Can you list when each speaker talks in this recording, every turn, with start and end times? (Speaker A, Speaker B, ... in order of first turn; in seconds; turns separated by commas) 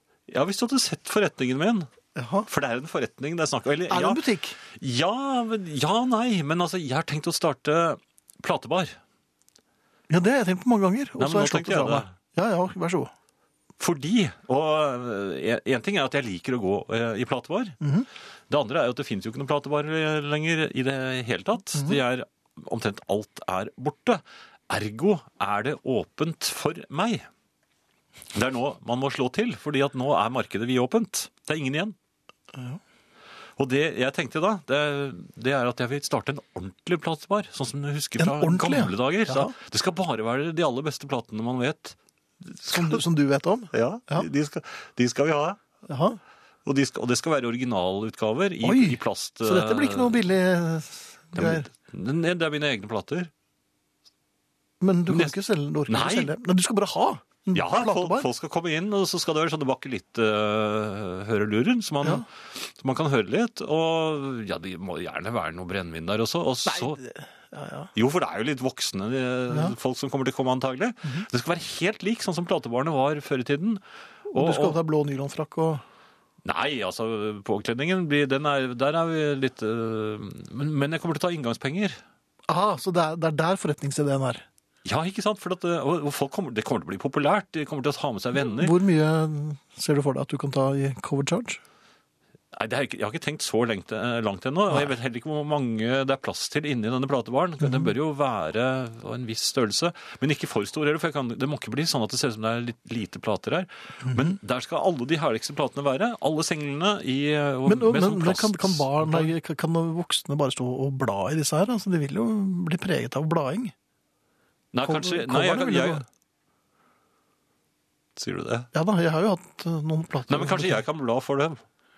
Speaker A: 0.3-1.9, Speaker B: 2.1-2.5, Speaker A: 2.5-9.0, Speaker B: 3.9-4.6, Speaker B: 10.1-13.1, Speaker A: 11.2-12.1, Speaker A: 13.8-17.8, Speaker B: 17.8-18.1, Speaker A: 18.5-27.3, Speaker A: 28.3-31.9, Speaker B: 32.5-32.8, Speaker A: 33.6-43.0, Speaker B: 38.2-39.5, Speaker B: 42.7-44.3, Speaker A: 43.7-45.6, Speaker B: 45.9-46.2, Speaker A: 46.6-50.2, Speaker B: 48.6-51.7, Speaker A: 51.4-53.3, Speaker B: 54.8-58.3, Speaker A: 55.1-55.4, Speaker A: 55.9-56.3, Speaker A: 57.5-67.0, Speaker B: 66.7-67.9, Speaker A: 68.0-73.8, Speaker B: 74.3-75.8, Speaker A: 74.3-74.8, Speaker A: 76.4-82.0, Speaker B: 82.5-84.5, Speaker A: 84.8-88.8, Speaker B: 88.4-91.6, Speaker A: 92.5-109.3, Speaker B: 104.0-104.3, Speaker B: 107.7-113.7, Speaker A: 114.7-116.0, Speaker B: 114.8-116.0, Speaker A: 118.2-118.7, Speaker B: 118.7-120.8, Speaker A: 120.3-121.6